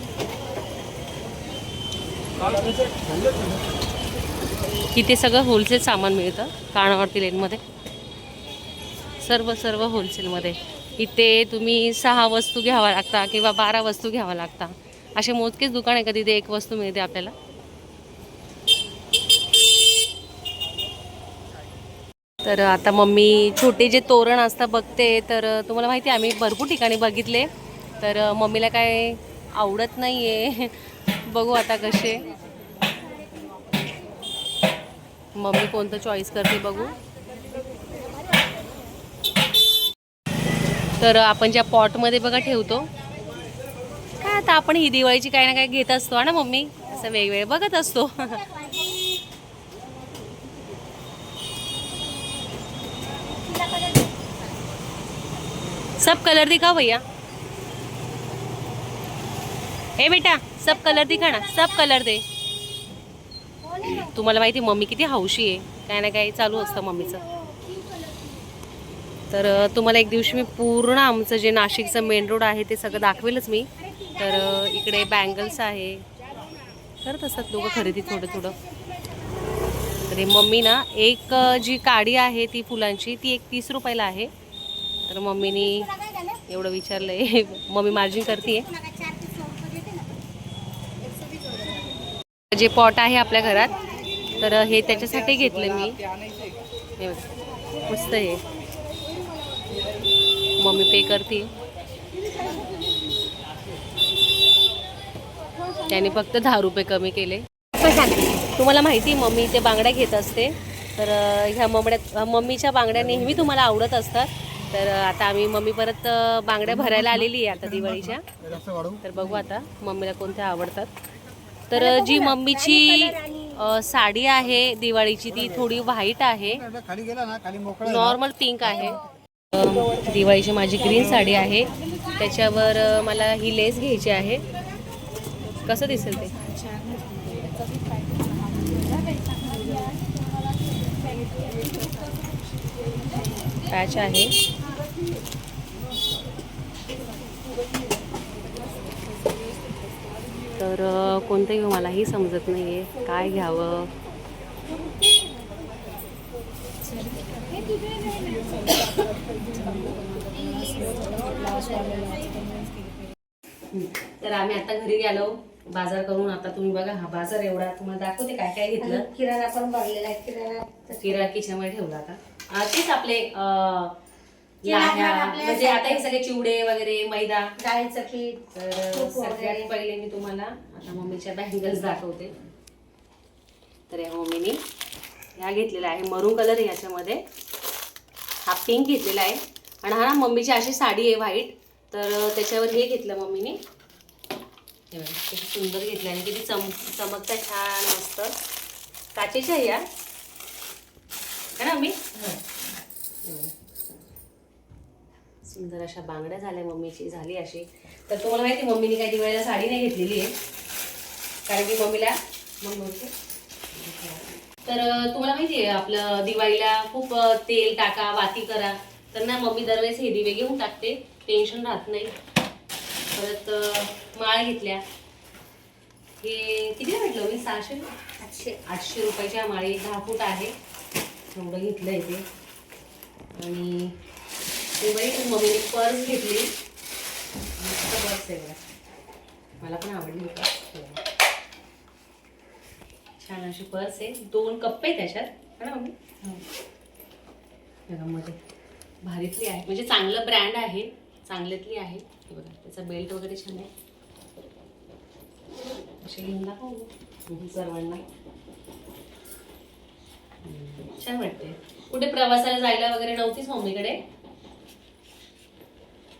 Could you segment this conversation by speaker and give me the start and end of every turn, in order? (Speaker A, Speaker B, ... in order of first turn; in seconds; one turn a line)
Speaker A: 4.9-7.6
Speaker A: 9.2-17.3
Speaker A: 22.4-32.3
Speaker A: 35.4-37.0
Speaker A: 41.0-42.9
Speaker A: 44.2-48.4
Speaker B: 48.2-49.0
Speaker B: 53.3-54.3
Speaker A: 56.0-57.0
Speaker A: 60.0-62.2
Speaker B: 60.7-61.9
Speaker B: 63.6-64.2
Speaker A: 63.8-67.2
Speaker B: 66.7-68.4
Speaker A: 69.3-76.1
Speaker B: 72.9-73.2
Speaker B: 73.8-75.6
Speaker A: 77.0-78.6
Speaker B: 77.5-79.5
Speaker A: 80.1-84.3
Speaker A: 85.1-85.9
Speaker B: 85.4-86.5
Speaker A: 86.5-88.7
Speaker B: 87.9-90.2
Speaker A: 92.5-93.8
Speaker A: 94.4-96.0
Speaker A: 97.0-97.3
Speaker A: 97.8-98.4
Speaker A: 100.6-101.5
Speaker B: 102.3-102.6
Speaker A: 105.9-118.3
Speaker B: 107.9-108.2
Speaker C: 116.7-119.0
Speaker A: 119.0-120.9
Speaker A: 121.7-126.7
Speaker B: 121.7-123.7
Speaker C: 126.6-128.2
Speaker A: 127.8-129.0
Speaker A: 129.5-134.4
Speaker A: 135.7-136.4
Speaker A: 143.7-144.3
Speaker A: 150.6-153.9
Speaker B: 157.7-158.6
Speaker B: 159.5-162.7
Speaker A: 163.7-169.1
Speaker B: 168.8-171.3
Speaker A: 171.0-173.9
Speaker B: 174.6-176.1
Speaker A: 174.7-177.5
Speaker B: 177.6-179.7
Speaker A: 178.5-182.3
Speaker A: 183.9-184.6
Speaker A: 185.4-187.2
Speaker A: 188.5-193.6
Speaker A: 194.9-198.3
Speaker A: 199.2-199.8
Speaker A: 201.6-202.4
Speaker A: 203.2-203.5
Speaker A: 205.4-210.3
Speaker A: 211.5-213.1
Speaker A: 213.7-222.1
Speaker A: 223.2-224.8
Speaker A: 226.2-227.9
Speaker B: 228.2-228.6
Speaker A: 228.7-230.5
Speaker A: 231.3-232.2
Speaker A: 233.3-234.0
Speaker A: 234.8-236.5
Speaker A: 237.6-238.6
Speaker A: 239.6-241.0
Speaker A: 243.2-246.4
Speaker A: 247.9-248.4
Speaker A: 249.0-253.7
Speaker A: 256.0-258.0
Speaker A: 260.4-264.0